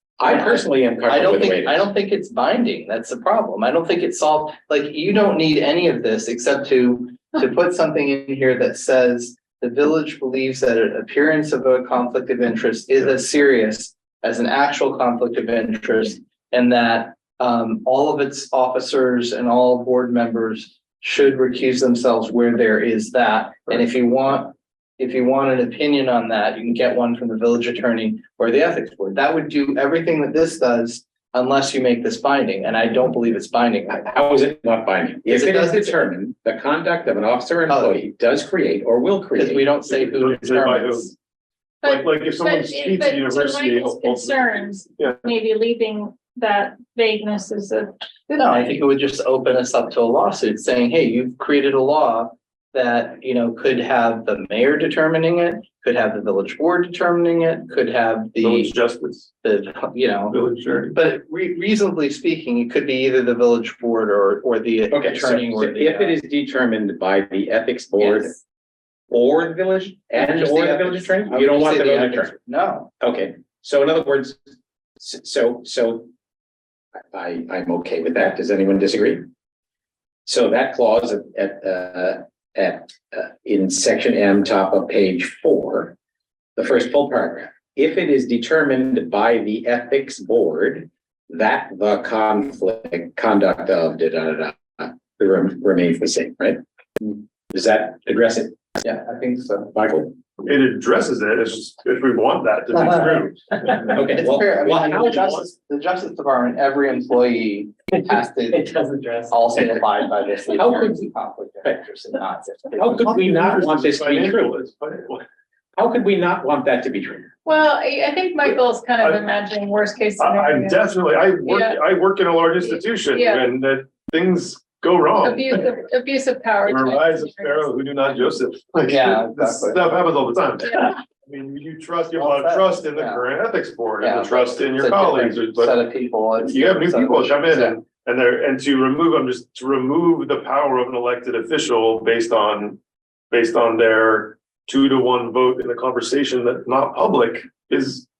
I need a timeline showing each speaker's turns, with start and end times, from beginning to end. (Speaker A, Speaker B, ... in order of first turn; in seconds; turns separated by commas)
Speaker A: 0.2-1.9, Speaker B: 0.2-34.1, Speaker A: 33.9-39.7, Speaker B: 35.3-36.0, Speaker B: 37.7-37.9, Speaker B: 39.4-41.1, Speaker C: 39.8-41.1, Speaker D: 41.8-48.8, Speaker C: 41.8-45.2, Speaker B: 48.4-58.7, Speaker C: 58.4-59.3, Speaker B: 59.4-60.3, Speaker C: 60.3-61.0, Speaker B: 60.9-66.1, Speaker A: 64.9-68.3, Speaker B: 68.0-68.4, Speaker A: 69.1-72.3, Speaker B: 70.1-72.9, Speaker A: 73.0-74.4, Speaker A: 75.0-76.1, Speaker A: 77.1-79.2, Speaker A: 80.2-86.0, Speaker A: 86.5-98.6, Speaker B: 98.9-99.6, Speaker A: 99.7-100.1, Speaker C: 100.4-105.5, Speaker A: 103.9-105.4, Speaker B: 104.1-108.7, Speaker B: 109.3-112.9, Speaker A: 110.5-111.0, Speaker A: 112.8-114.5, Speaker C: 112.9-115.2, Speaker A: 115.8-117.3, Speaker D: 117.4-121.8, Speaker C: 119.0-119.3, Speaker C: 120.2-125.7, Speaker D: 122.6-123.5, Speaker D: 125.2-127.7, Speaker C: 126.6-135.8, Speaker B: 128.9-129.8, Speaker B: 132.1-133.2, Speaker B: 134.0-137.7, Speaker C: 136.4-148.1